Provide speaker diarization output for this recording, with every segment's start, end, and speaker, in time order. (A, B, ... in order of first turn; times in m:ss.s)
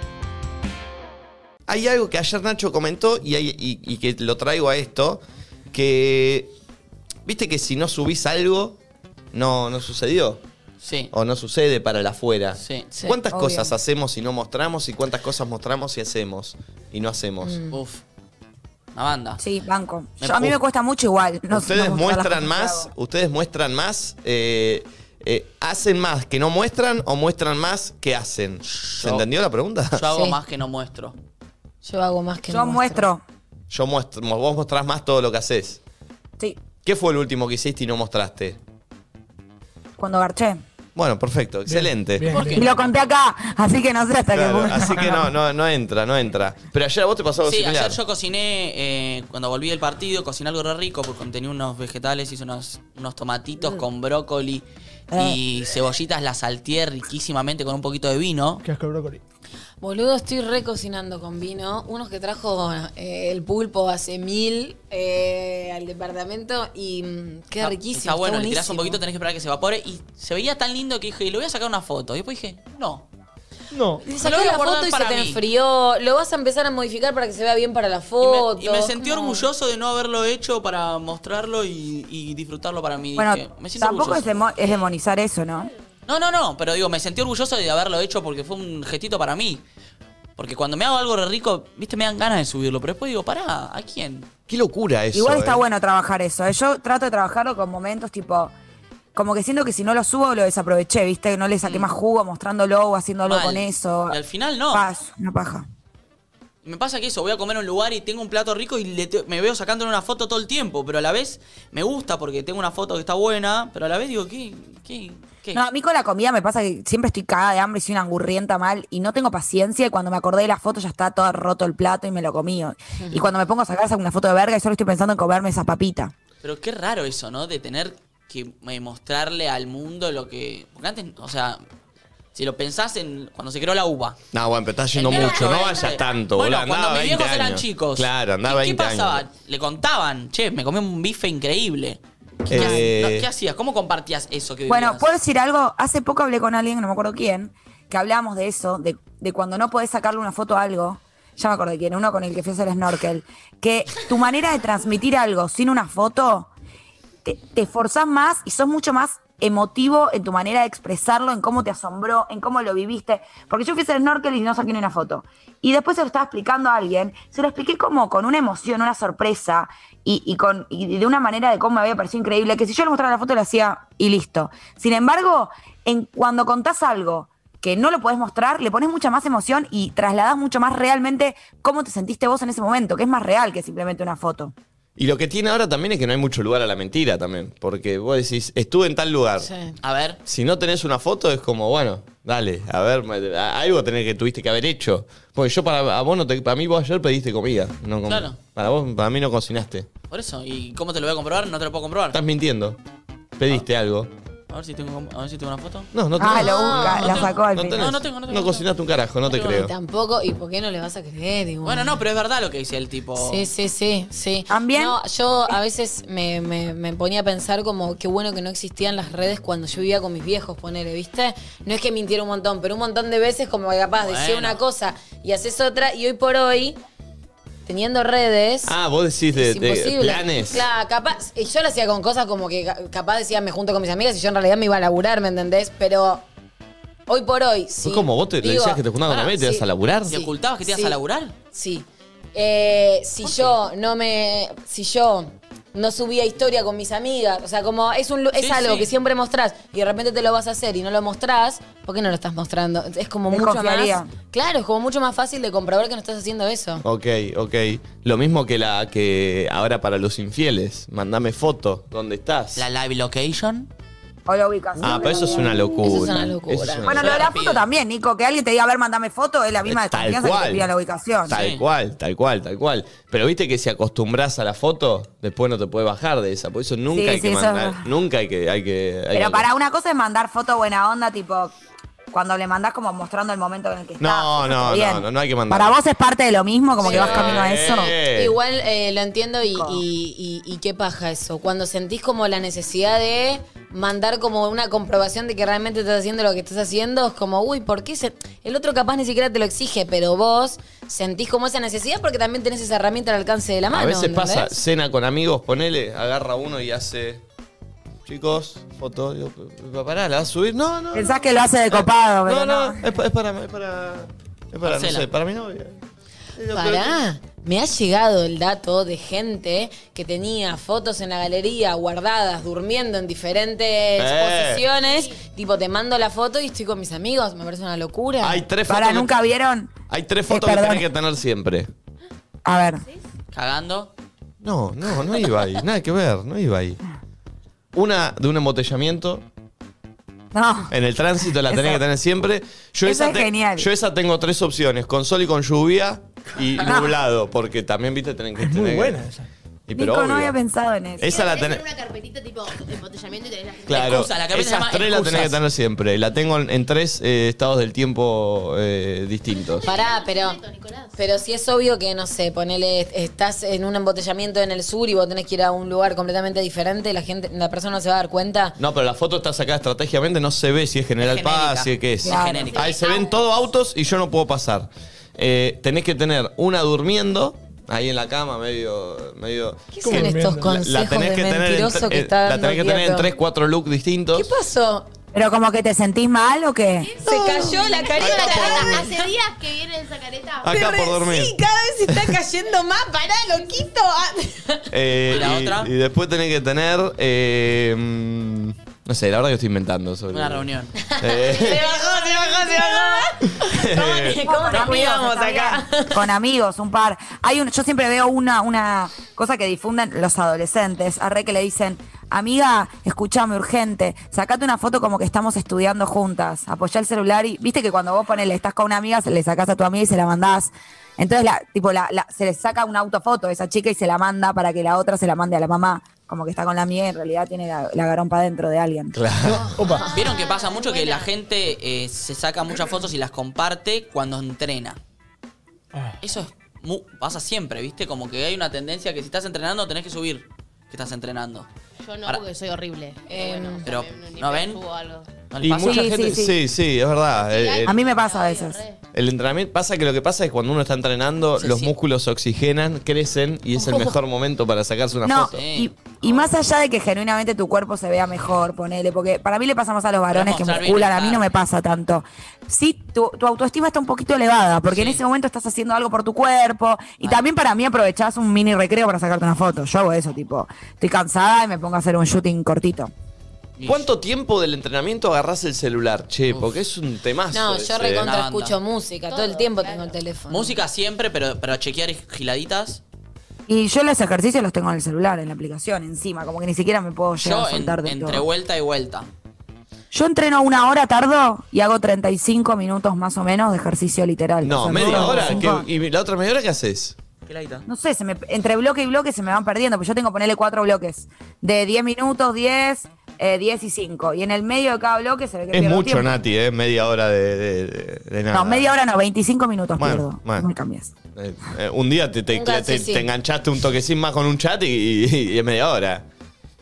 0:01.7-0:06.5 A
0:07.2-0:08.8 A
0:09.3-0:10.4 A
0:10.8-0:11.1 B
0:11.1-0:17.6 A
0:12.6-0:12.9 B
0:13.3-0:13.7 C
0:17.4-0:17.7 D
0:17.7-0:18.0 B
0:18.9-0:19.4 B
0:19.4-0:22.9 C
0:20.2-0:20.5 B
0:21.5-0:30.0 A
0:28.6-0:29.2 B
0:29.9-0:31.2 B
0:30.1-0:30.4 D
0:31.8-0:33.1 D
0:32.5-0:33.2 C
0:33.7-0:35.8 A
0:36.8-0:38.6 A
0:40.0-0:40.6 C
0:40.9-0:42.3 A
0:41.6-0:42.6 E
0:42.3-0:42.6 B
0:42.5-0:45.2 C
0:44.3-0:48.0 A
0:47.4-0:58.6 B
0:55.1-0:55.4 C
0:58.6-0:59.2 E
0:59.8-1:09.0 D
1:07.6-1:13.0 B
1:13.7-1:14.0 E
1:14.0-1:19.4 D
1:14.2-1:15.4 B
1:18.2-1:24.3 B
1:23.2-1:25.7 C
1:26.1-1:29.6 B
1:30.4-1:34.3 B
1:34.5-1:35.6 A
1:35.1-1:38.5 C
1:39.1-1:44.2 C
1:41.6-1:41.9 B
1:43.2-1:44.8 B
1:44.7-1:45.6 C
1:46.6-1:55.6 B
1:55.5-2:06.1 C
2:03.0-2:03.3 D
2:06.4-2:11.6 B
2:12.3-2:14.2 B
2:14.3-2:19.2 A
2:14.9-2:25.1 B
2:22.5-2:23.2 A
2:22.5-2:22.8 C
2:24.7-2:36.5 C
2:37.2-3:04.5 C
3:05.0-3:09.5 A
3:09.4-3:09.8 D
3:09.8-3:10.2 B
3:10.2-3:19.9 A
3:18.1-3:18.4 B
3:20.1-3:22.2 B
3:22.1-3:22.8 A
3:23.4-3:24.1 A
3:24.5-3:25.9 B
3:25.9-3:29.7 A
3:26.2-3:27.9 C
3:26.3-3:27.3 D
3:26.9-3:28.7 B
3:29.3-3:32.0 D
3:31.6-3:33.5 B
3:33.2-3:46.8 D
3:34.5-3:35.0 C
3:44.0-3:44.6 B
3:47.6-3:48.8 D
3:48.6-3:50.6 A
3:49.3-3:56.2 D
3:57.1-4:01.0 D
3:57.8-4:00.1 A
4:00.1-4:01.3 B
4:01.5-4:16.8 D
4:03.2-4:03.5 B
4:08.4-4:08.9 B
4:13.3-4:14.1 C
4:16.8-4:22.6 A
4:22.5-4:23.7 B
4:24.2-4:25.8 C
4:24.8-4:27.3 A
4:25.8-4:26.9 D
4:26.8-4:31.4 C
4:27.0-4:27.6 B
4:29.6-4:30.7 A
4:31.3-4:39.5 A
4:31.3-4:31.6 B
4:36.9-4:37.8 C
4:39.1-4:41.5 C
4:42.1-4:48.0 C
4:44.0-4:45.8 A
4:46.8-5:04.6 D
4:46.8-4:48.4 A
4:49.5-4:49.8 C
5:03.7-5:07.2 A
5:08.0-5:15.8 A
5:10.9-5:12.9 C
5:14.6-5:15.1 B
5:16.4-5:17.0 A
5:16.5-5:28.4 D
5:24.0-5:24.6 A
5:28.2-5:29.1 A
5:28.7-5:29.8 C
5:29.9-5:31.7 A
5:30.3-5:30.8 C
5:32.4-5:32.8 C
5:33.3-5:33.9 B
5:34.4-5:36.8 A
5:37.7-5:39.2 A
5:40.3-5:40.7 C
5:40.7-5:49.1 A
5:41.3-5:41.8 C
5:42.8-5:43.7 C
5:46.6-5:47.0 C
5:48.4-5:49.3 E
5:49.7-5:50.4 A
5:49.7-5:51.2 C
5:51.0-5:54.0 F
5:51.0-5:51.6 A
5:53.6-5:59.8 A
5:53.7-5:55.4 B
5:59.3-6:00.9 F
5:59.6-6:00.4 D
6:00.9-6:08.6 D
6:08.6-6:24.3 A
6:11.0-6:12.8 B
6:12.0-6:12.5 C
6:12.5-6:13.3 F
6:19.7-6:23.1 D
6:19.8-6:20.6 E
6:24.1-6:24.9 D
6:25.1-6:27.6 C
6:26.8-6:30.7 F
6:27.0-6:29.1 D
6:28.0-6:28.7 A
6:30.4-6:34.7 D
6:30.4-6:31.3 A
6:34.7-6:40.5 A
6:35.1-6:35.7 B
6:40.1-6:40.7 B
6:40.8-6:46.0 D
6:41.0-6:44.6 A
6:44.2-7:09.0 C
7:08.9-7:09.5 A
7:09.2-7:09.9 E
7:09.6-7:11.1 D
7:09.9-7:14.8 B
7:16.0-7:21.5 B
7:21.8-7:25.2 F
7:23.1-7:23.7 D
7:23.6-7:24.6 B
7:25.3-7:26.2 B
7:25.4-7:27.8 A
7:25.6-7:26.4 C
7:27.2-7:28.8 F
7:27.6-7:28.6 C
7:28.9-7:35.4 A
7:31.4-7:31.7 B
7:35.0-7:52.9 C
7:35.3-7:36.2 B
7:40.1-7:41.3 B
7:44.7-7:45.0 B
7:53.6-7:53.9 B
7:53.6-7:58.1 A
7:56.3-7:56.6 B
7:57.3-8:00.6 D
7:58.0-7:58.6 B
7:59.1-8:00.0 F
8:00.3-8:02.8 B
8:03.5-8:08.3 C
8:07.2-8:09.1 B
8:09.9-8:15.7 C
8:14.4-8:17.0 A
8:14.7-8:15.3 E
8:17.3-8:17.6 B
8:17.6-8:26.2 C
8:25.5-8:28.7 A
8:28.3-8:30.9 C
8:29.8-8:30.5 A
8:31.1-8:36.0 A
8:32.3-8:33.1 D